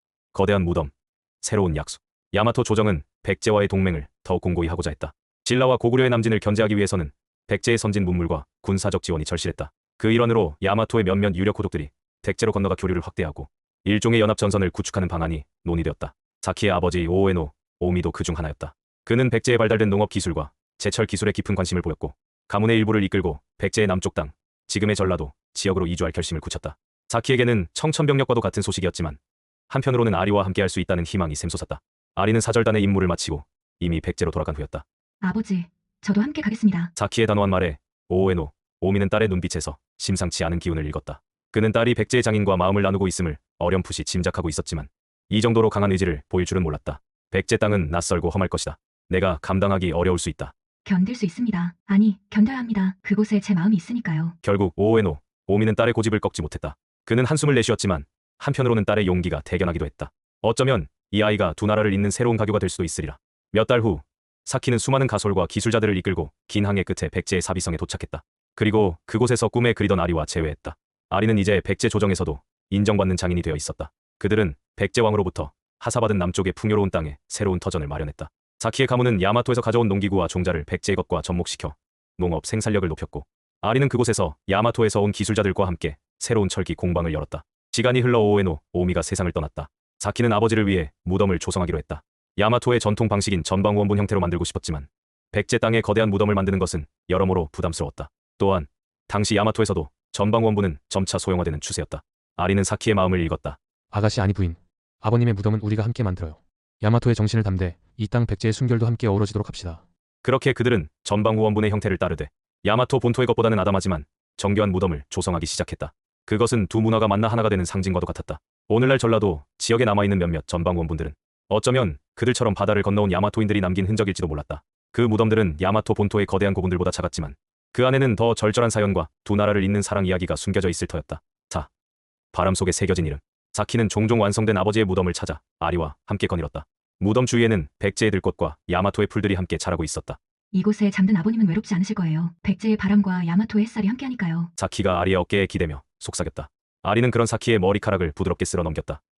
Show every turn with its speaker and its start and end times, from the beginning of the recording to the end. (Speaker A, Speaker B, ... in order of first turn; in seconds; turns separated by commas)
Speaker A: 0.3-34.8, Speaker B: 35.2-36.9, Speaker A: 36.9-50.5, Speaker B: 50.8-54.4, Speaker A: 54.4-103.6, Speaker C: 103.9-109.8, Speaker A: 110.2-131.7, Speaker A: 132.3-140.2, Speaker B: 140.5-144.5, Speaker A: 144.6-149.0